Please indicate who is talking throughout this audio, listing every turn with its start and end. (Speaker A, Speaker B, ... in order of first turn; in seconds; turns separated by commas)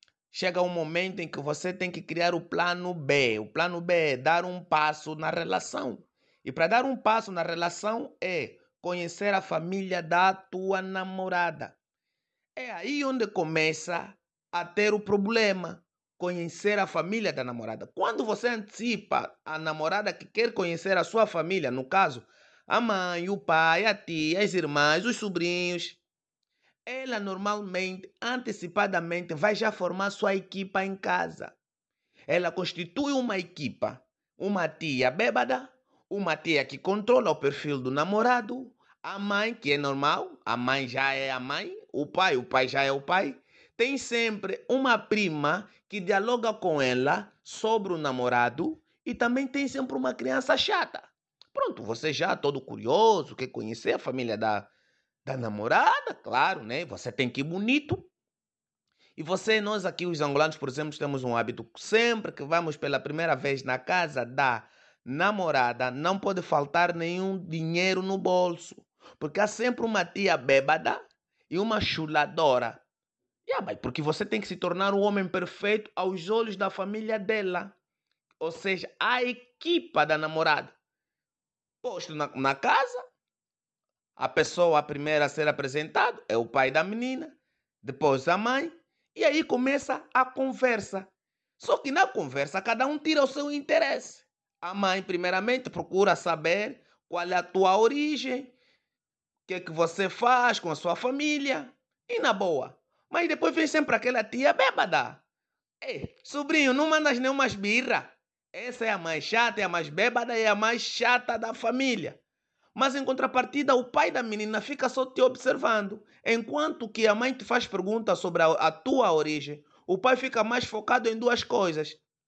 Speaker A: 0.3-11.8, Speaker A: 12.6-26.0, Speaker A: 26.9-31.6, Speaker A: 32.3-54.7, Speaker A: 55.2-58.1, Speaker A: 59.2-72.8, Speaker A: 73.5-77.8, Speaker A: 78.4-80.8, Speaker A: 81.8-83.0, Speaker A: 84.2-98.5, Speaker A: 99.5-105.2, Speaker A: 105.8-112.2, Speaker A: 112.8-122.0